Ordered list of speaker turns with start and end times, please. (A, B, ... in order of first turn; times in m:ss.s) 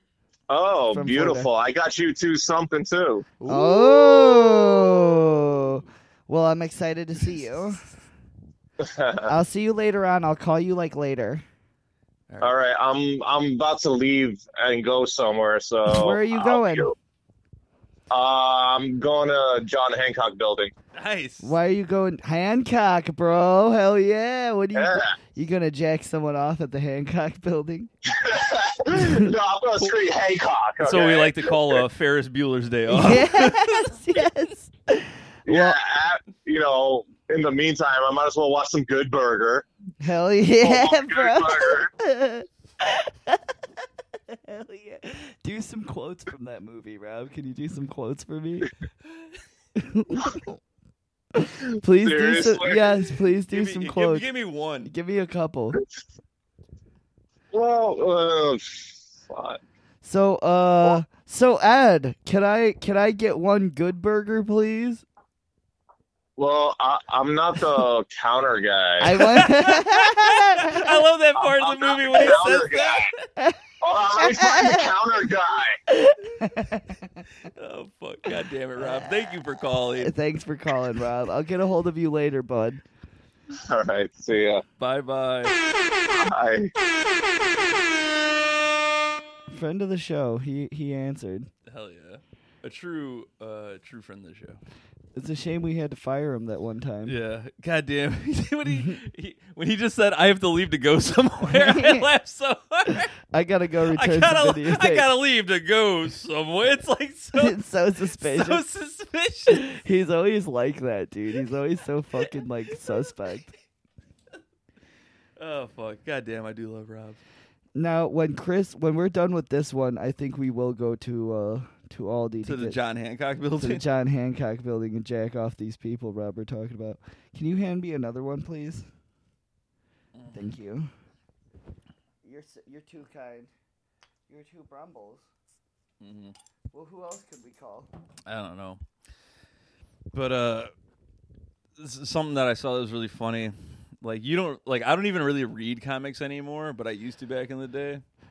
0:00.5-0:03.3 A
0:00.9-0:01.5 B
0:03.4-0:04.0 C
0:03.5-0:07.8 B
0:08.8-0:09.3 A
0:09.3-0:11.4 B
0:12.4-0:16.9 A
0:15.8-0:16.9 B
0:18.1-0:20.7 A
0:21.0-0:21.5 C
0:21.4-0:27.9 B
0:24.7-0:25.1 A
0:28.1-0:31.8 A
0:28.9-0:29.3 B
0:30.8-0:33.9 C
0:32.9-0:35.8 B
0:35.4-0:39.6 A
0:40.0-0:43.4 B
0:40.6-0:41.9 A
0:44.3-0:48.7 B
0:49.8-0:50.6 B
0:51.4-0:54.2 B
0:51.9-0:53.1 A
0:53.5-0:54.9 C
0:54.8-0:55.8 B
0:57.5-0:59.6 A
1:00.0-1:05.0 B
1:06.4-1:09.2 A
1:09.0-1:10.9 B
1:09.2-1:13.2 C
1:11.4-1:13.1 A
1:13.8-1:15.8 A
1:14.1-1:14.9 B
1:15.9-1:17.2 B
1:17.4-1:20.1 C
1:20.0-1:22.8 B
1:23.5-1:24.6 A
1:24.8-1:25.5 C
1:26.1-1:26.7 A
1:29.5-1:31.5 B
1:31.6-1:34.6 C
1:35.1-1:37.2 B
1:37.0-1:43.1 C
1:41.5-1:42.1 B
1:43.3-1:45.1 B
1:43.9-1:47.6 C
1:47.3-1:48.6 B
1:48.2-1:49.7 C
1:49.5-1:53.5 B
1:52.8-1:53.1 C
1:55.4-1:57.2 C
1:57.7-2:02.8 B
2:02.4-2:03.8 C
2:03.6-2:08.9 B
2:10.1-2:10.5 C
2:10.3-2:10.9 B
2:12.2-2:13.5 B
2:14.3-2:15.2 B
2:16.0-2:16.3 C
2:16.7-2:17.9 B
2:18.2-2:18.8 C
2:20.1-2:20.7 C
2:21.8-2:28.0 C